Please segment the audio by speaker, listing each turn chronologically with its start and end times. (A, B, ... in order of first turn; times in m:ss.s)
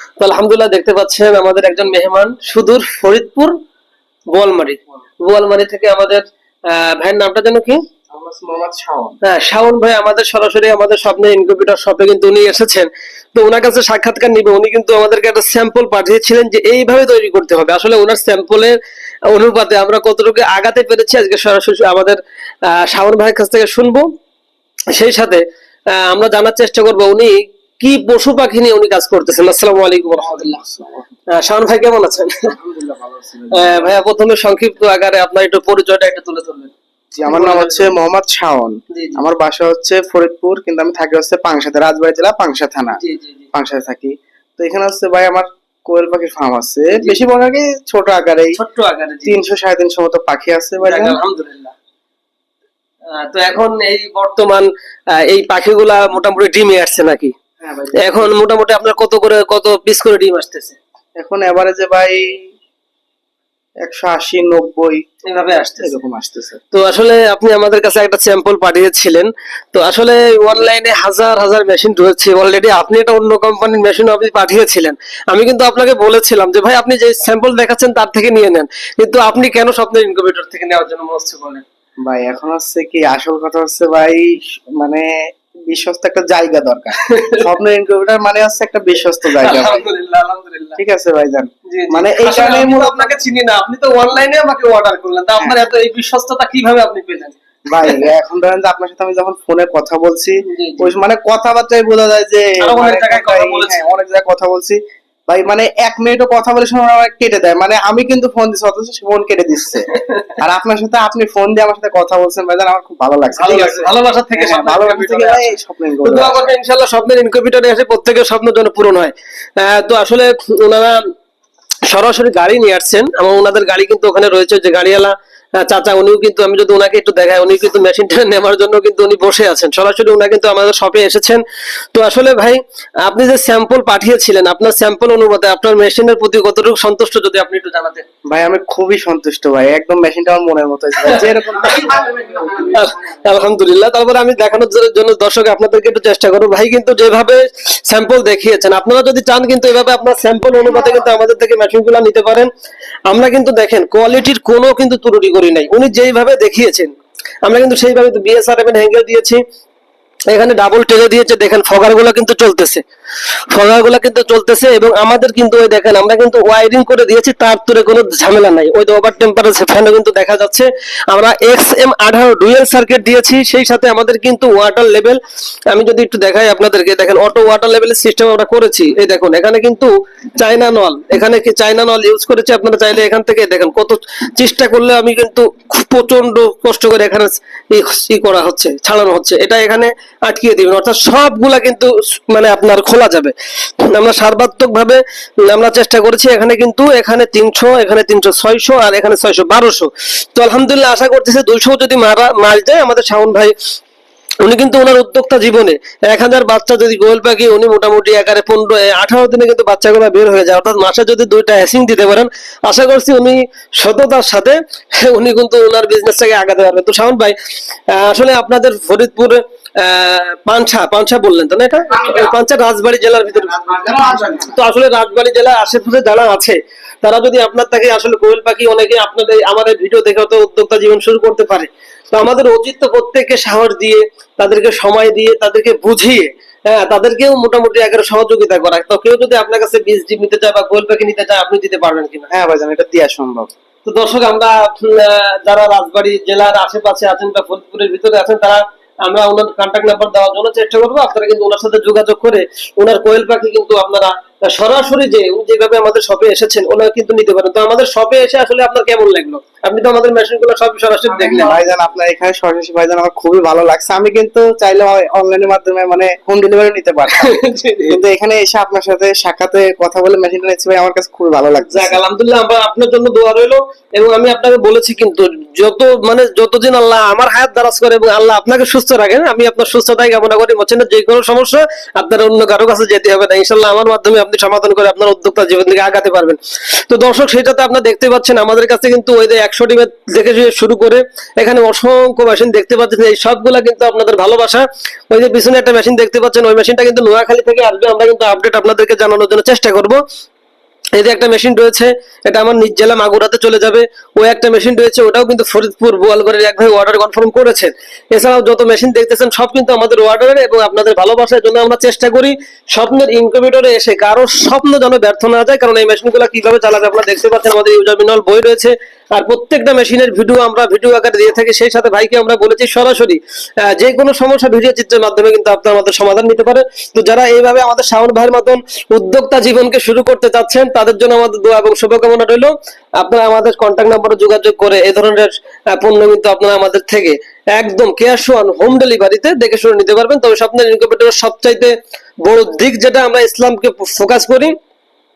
0:00.2-0:03.5 A
0:04.3-0:07.8 A
0:08.1-0:09.2 B
0:09.2-0:18.8 A
0:19.3-0:24.0 A
0:24.9-0:30.5 A
0:30.2-0:31.0 B
0:31.3-0:32.5 A
0:32.5-0:33.9 B
0:33.5-0:36.7 A
0:37.2-0:43.0 B
0:37.2-0:37.9 A
0:38.9-0:39.2 A
0:43.0-0:43.4 A
0:43.5-0:48.6 B
0:48.6-0:49.4 A
0:49.2-0:51.2 B
0:50.8-0:51.7 A
0:53.1-0:57.3 A
0:57.6-0:58.3 B
0:58.0-1:00.8 A
1:01.2-1:02.5 B
1:03.8-1:05.2 B
1:05.2-1:06.0 A
1:05.8-1:06.6 B
1:06.7-1:21.6 A
1:22.0-1:25.1 B
1:25.7-1:29.8 B
1:27.0-1:27.4 A
1:29.4-1:30.8 A
1:30.8-1:33.2 B
1:31.7-1:38.0 A
1:37.7-1:56.4 B
1:40.4-1:40.9 A
1:42.6-1:43.8 A
1:49.9-1:50.4 A
1:53.4-2:01.0 A
2:01.9-2:11.4 A
2:11.9-2:18.0 A
2:18.3-2:22.7 B
2:22.6-2:32.5 A
2:33.1-2:36.9 A
2:37.4-2:39.4 A
2:40.3-2:42.8 A
2:43.5-2:55.2 A
2:55.7-3:23.5 A
3:24.4-3:37.3 A
3:37.9-4:02.3 A
3:43.6-3:44.4 B
4:02.3-4:03.5 B
4:03.8-4:21.6 A
4:21.2-4:27.4 B
4:27.2-4:28.0 A
4:27.9-4:32.0 B
4:31.6-5:00.0 A
5:01.0-5:44.5 A